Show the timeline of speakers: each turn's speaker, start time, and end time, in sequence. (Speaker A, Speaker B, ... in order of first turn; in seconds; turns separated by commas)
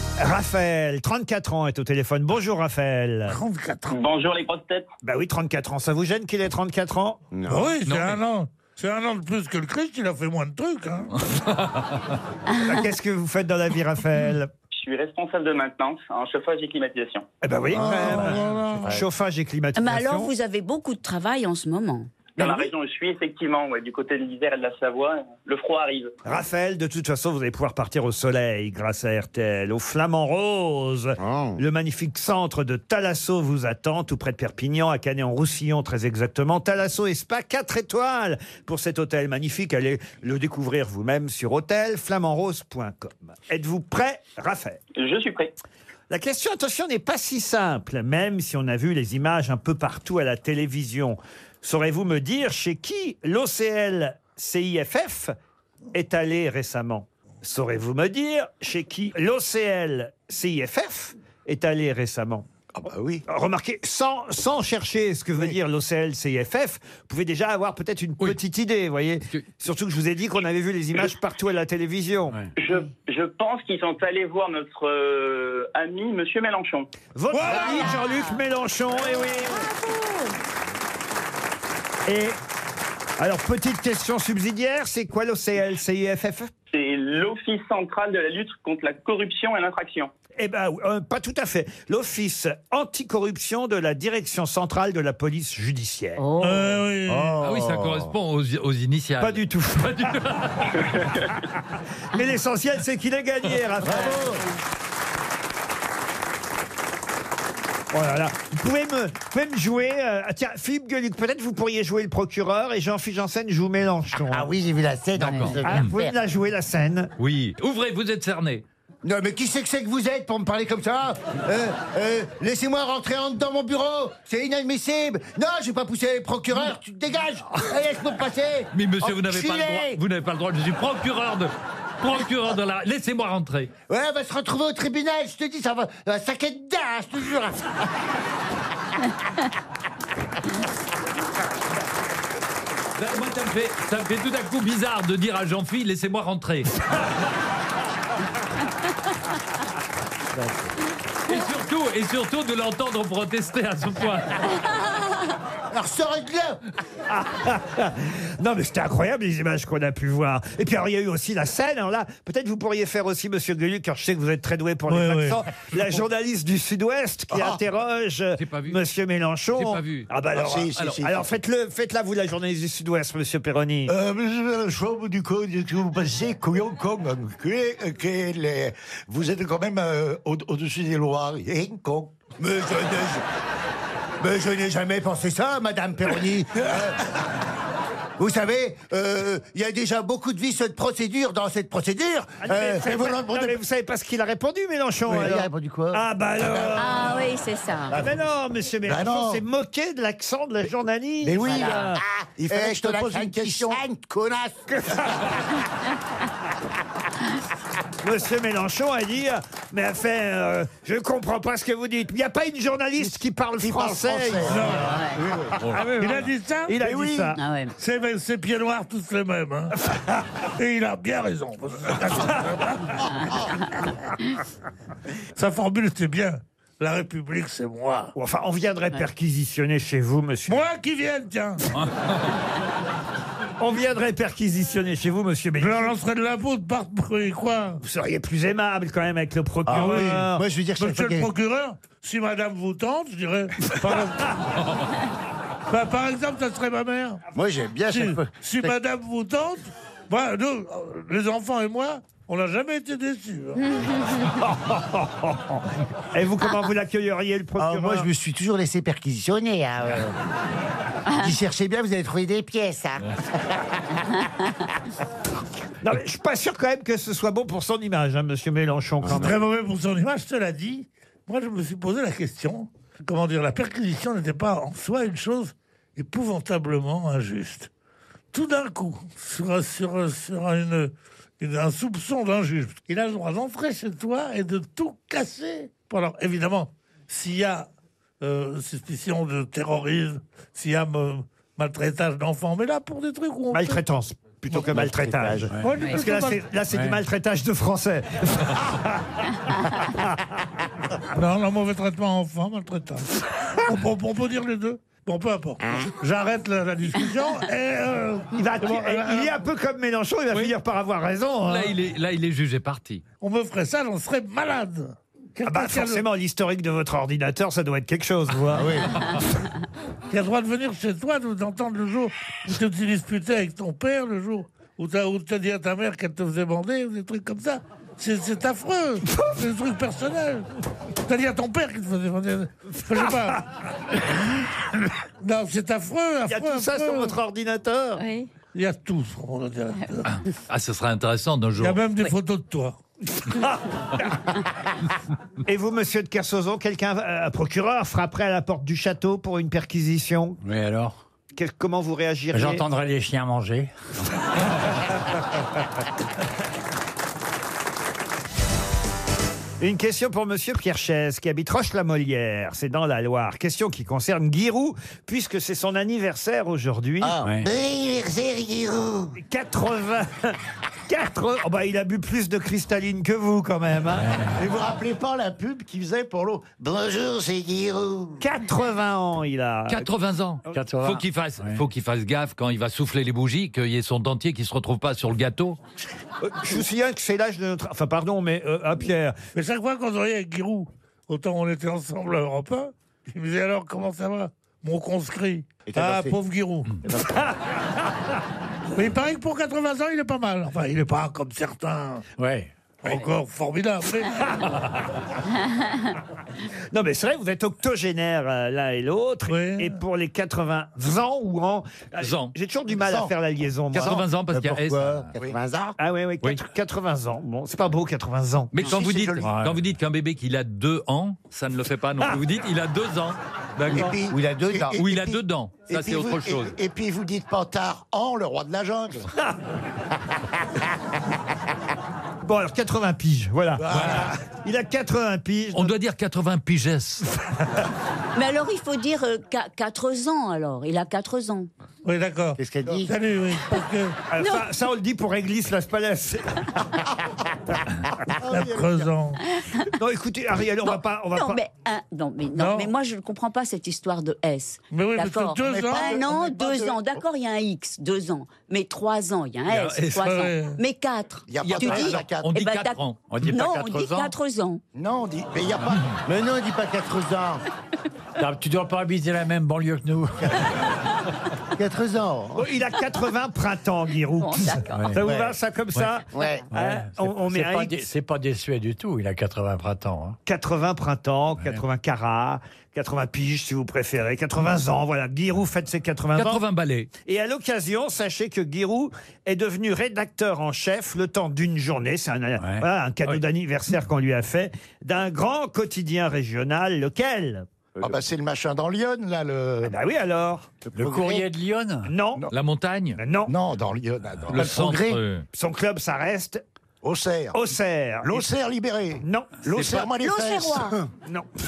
Speaker A: 0.2-3.4, Speaker B: 3.3-4.0, Speaker C: 3.9-4.9, Speaker A: 5.0-7.2, Speaker D: 7.3-7.8, Speaker B: 7.5-11.2, Speaker E: 7.8-8.2, Speaker F: 12.5-12.8, Speaker A: 12.6-14.5, Speaker C: 14.7-17.3, Speaker A: 17.4-20.3, Speaker G: 17.8-18.3, Speaker B: 17.8-19.0, Speaker D: 17.8-19.1, Speaker F: 19.8-22.7, Speaker C: 22.4-26.1, Speaker A: 26.2-44.8, Speaker D: 31.2-31.6, Speaker C: 45.0-45.5, Speaker A: 46.1-55.3, Speaker A: 55.9-62.5, Speaker G: 62.8-63.2, Speaker A: 63.3-72.5, Speaker C: 72.6-76.9, Speaker A: 77.1-79.6, Speaker B: 77.3-77.7, Speaker F: 77.5-78.4, Speaker F: 79.6-80.3, Speaker A: 82.0-82.4, Speaker A: 83.2-86.5, Speaker C: 86.7-90.1, Speaker A: 90.4-96.2, Speaker F: 96.2-96.8, Speaker B: 96.4-97.3, Speaker D: 97.1-98.1, Speaker E: 97.4-100.9, Speaker A: 99.2-100.1, Speaker A: 102.1-104.2, Speaker D: 103.9-104.4, Speaker F: 103.9-104.5, Speaker A: 107.9-114.5, Speaker D: 114.2-116.2, Speaker E: 115.2-115.9, Speaker F: 115.2-115.5, Speaker A: 115.6-117.1, Speaker E: 117.2-118.6, Speaker D: 119.0-130.0, Speaker E: 128.7-133.7, Speaker D: 133.9-137.6, Speaker E: 143.0-146.8, Speaker E: 151.3-154.5, Speaker D: 155.7-156.6, Speaker A: 157.1-173.9, Speaker B: 164.9-165.4, Speaker G: 167.3-167.6, Speaker E: 168.3-168.8, Speaker E: 169.5-170.1, Speaker G: 170.3-171.3, Speaker G: 173.9-182.3, Speaker D: 182.4-183.2, Speaker D: 184.2-187.0, Speaker D: 188.2-193.2, Speaker A: 192.4-197.2, Speaker G: 192.8-193.6, Speaker G: 195.1-195.3, Speaker D: 195.1-196.6, Speaker F: 196.8-198.0, Speaker A: 197.9-202.0, Speaker G: 198.8-199.4, Speaker G: 201.2-203.8, Speaker D: 201.4-204.7, Speaker A: 208.0-214.8, Speaker G: 213.0-215.6, Speaker B: 214.5-215.0, Speaker F: 214.8-215.2, Speaker E: 215.6-215.9, Speaker A: 215.7-217.4, Speaker B: 216.0-216.8, Speaker G: 216.8-217.4, Speaker F: 217.3-217.7, Speaker B: 217.8-219.7, Speaker A: 219.9-220.2, Speaker B: 220.6-223.4, Speaker B: 225.3-228.1, Speaker A: 228.1-230.7, Speaker B: 230.5-231.6, Speaker A: 233.6-235.9, Speaker B: 235.6-237.8, Speaker A: 237.8-240.4, Speaker D: 239.6-241.3, Speaker B: 239.7-240.2, Speaker B: 240.8-244.3, Speaker B: 245.7-247.2, Speaker D: 247.3-248.7, Speaker B: 247.9-253.6, Speaker A: 254.4-258.1, Speaker D: 257.6-260.1, Speaker D: 261.2-263.6, Speaker A: 265.8-269.4, Speaker B: 269.1-277.7, Speaker B: 278.3-287.7, Speaker B: 288.2-293.8, Speaker A: 293.5-299.1, Speaker D: 294.5-295.5, Speaker B: 295.6-296.4, Speaker H: 296.7-297.0, Speaker A: 299.7-300.1, Speaker B: 301.1-303.1, Speaker B: 303.6-309.4, Speaker A: 308.3-311.7, Speaker E: 310.3-310.6, Speaker E: 311.5-313.0, Speaker B: 313.2-316.0, Speaker A: 315.4-318.8, Speaker D: 318.5-319.0, Speaker B: 320.1-330.5, Speaker B: 331.1-333.4, Speaker B: 335.2-337.2, Speaker A: 336.3-338.0, Speaker F: 338.0-338.3, Speaker B: 338.5-340.1, Speaker E: 340.0-341.8, Speaker B: 341.6-342.8, Speaker A: 343.2-344.1, Speaker A: 345.4-350.4, Speaker H: 350.4-350.9, Speaker A: 351.3-352.6, Speaker H: 352.3-353.7, Speaker A: 359.6-367.2, Speaker D: 367.0-369.1, Speaker H: 367.2-367.5, Speaker A: 369.2-374.1, Speaker H: 374.0-374.4, Speaker G: 374.4-376.8, Speaker D: 376.7-378.2, Speaker A: 378.2-379.8, Speaker E: 379.7-385.6, Speaker H: 380.5-381.6, Speaker A: 386.2-389.2, Speaker B: 389.3-396.7, Speaker D: 395.6-396.2, Speaker A: 396.9-397.3, Speaker B: 398.7-402.0, Speaker H: 402.2-402.5, Speaker B: 402.8-404.4, Speaker A: 406.7-414.0, Speaker B: 409.3-409.8, Speaker E: 412.0-412.3, Speaker G: 412.7-413.1, Speaker E: 413.7-415.1, Speaker G: 413.7-414.0, Speaker D: 414.3-415.8, Speaker A: 415.8-418.5, Speaker E: 418.5-423.9, Speaker G: 418.6-419.3, Speaker H: 419.2-419.7, Speaker G: 423.7-429.1, Speaker D: 423.8-424.8, Speaker E: 424.8-426.5, Speaker A: 432.2-435.7, Speaker G: 433.6-434.2, Speaker E: 435.5-437.1, Speaker F: 438.1-441.5, Speaker B: 441.8-443.9, Speaker D: 442.4-442.9, Speaker A: 444.1-446.8, Speaker F: 444.2-444.4, Speaker B: 448.3-449.2, Speaker G: 448.3-448.8, Speaker F: 449.2-449.6, Speaker A: 449.8-451.4, Speaker F: 450.6-464.6, Speaker B: 452.3-452.7, Speaker B: 454.7-456.0, Speaker G: 455.4-456.8, Speaker E: 459.5-460.1, Speaker B: 460.0-460.6, Speaker G: 461.3-462.3, Speaker E: 461.4-463.2, Speaker H: 463.1-464.1, Speaker G: 464.7-465.9, Speaker D: 466.1-467.4, Speaker H: 468.2-470.4, Speaker D: 471.5-472.5, Speaker A: 472.4-477.8, Speaker F: 474.2-475.0, Speaker H: 474.7-475.0, Speaker D: 475.0-475.4, Speaker D: 476.1-476.4, Speaker H: 476.5-480.2, Speaker A: 480.2-486.4, Speaker E: 486.1-486.9, Speaker A: 487.0-497.4, Speaker H: 492.4-492.6, Speaker G: 497.8-499.7, Speaker A: 499.6-500.5, Speaker H: 500.8-501.9, Speaker D: 500.8-501.2, Speaker A: 501.9-502.2, Speaker E: 502.3-503.0, Speaker A: 503.0-503.3, Speaker G: 503.2-504.5, Speaker E: 504.3-505.2, Speaker D: 504.3-505.0, Speaker A: 505.3-506.4, Speaker G: 506.8-507.4, Speaker A: 507.3-508.3, Speaker G: 508.0-510.8, Speaker A: 509.0-509.4, Speaker E: 509.5-509.8, Speaker F: 510.0-510.8